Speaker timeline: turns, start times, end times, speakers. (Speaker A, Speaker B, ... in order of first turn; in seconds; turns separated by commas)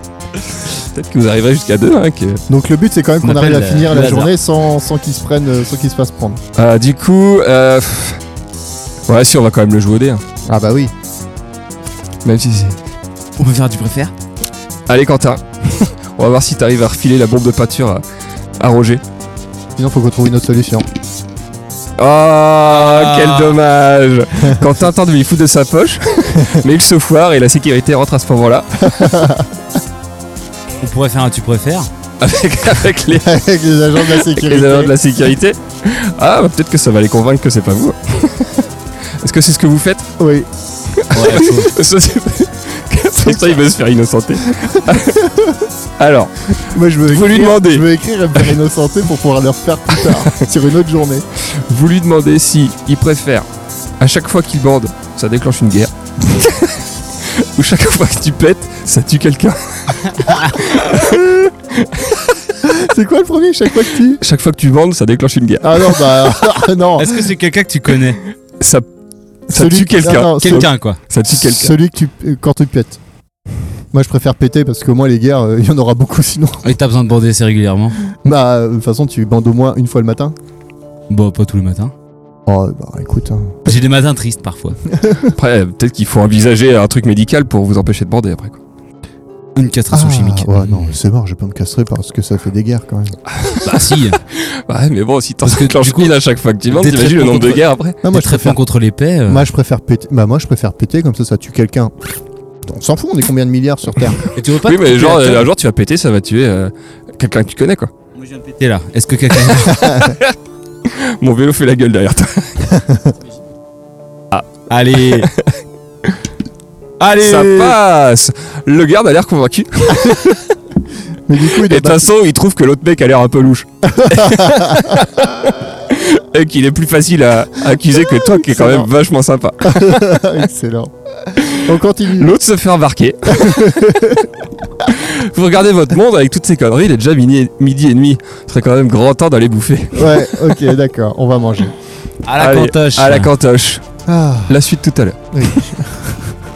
Speaker A: 0.7-2.4, Speaker B: 2.5-6.4, Speaker C: 3.2-4.3, Speaker A: 6.5-8.2, Speaker A: 9.1-10.2, Speaker B: 10.5-10.9, Speaker A: 12.2-12.8, Speaker C: 13.4-14.1, Speaker A: 14.9-18.0, Speaker A: 18.6-19.0, Speaker B: 19.8-20.9, Speaker A: 22.0-29.2, Speaker C: 22.7-23.6, Speaker B: 26.3-26.6, Speaker B: 28.8-29.5, Speaker C: 30.8-31.9, Speaker A: 32.2-33.4, Speaker B: 33.1-35.0, Speaker A: 34.0-38.6, Speaker A: 39.2-40.1, Speaker B: 40.2-40.5, Speaker A: 40.9-45.2, Speaker C: 41.1-41.7, Speaker B: 44.5-45.7, Speaker A: 46.0-47.9, Speaker B: 46.6-51.2, Speaker A: 51.5-53.5, Speaker A: 54.0-62.4, Speaker B: 62.6-64.2, Speaker A: 64.2-66.3, Speaker B: 65.6-67.3, Speaker C: 67.0-68.2, Speaker A: 68.6-68.9, Speaker B: 69.5-70.7, Speaker A: 69.5-71.8, Speaker C: 70.2-71.0, Speaker B: 71.3-73.0, Speaker B: 73.9-76.7, Speaker C: 76.6-78.0, Speaker B: 78.2-80.3, Speaker C: 81.1-81.9, Speaker B: 82.5-83.7, Speaker C: 83.6-84.8, Speaker B: 84.9-85.3, Speaker A: 85.3-88.6, Speaker C: 89.5-90.9, Speaker B: 89.9-93.2, Speaker A: 93.3-98.0, Speaker C: 93.6-94.2, Speaker C: 95.4-96.1, Speaker C: 96.7-99.5, Speaker B: 98.0-98.6, Speaker B: 99.3-101.9, Speaker B: 102.6-104.2, Speaker C: 104.3-105.5, Speaker A: 104.6-107.9, Speaker C: 108.2-110.1, Speaker A: 109.5-112.7, Speaker B: 109.8-110.0, Speaker B: 112.7-113.1, Speaker C: 114.7-115.3, Speaker A: 115.1-115.5, Speaker C: 117.0-117.8, Speaker A: 117.2-120.5, Speaker B: 121.3-122.1, Speaker A: 121.4-130.2, Speaker B: 123.9-125.6, Speaker B: 128.2-128.9, Speaker B: 129.6-132.3, Speaker A: 131.4-134.1, Speaker B: 133.3-134.3, Speaker A: 134.8-140.5, Speaker B: 139.9-141.7, Speaker C: 142.2-143.3, Speaker A: 142.3-143.8, Speaker B: 144.1-144.6, Speaker A: 144.5-145.5, Speaker B: 145.3-146.3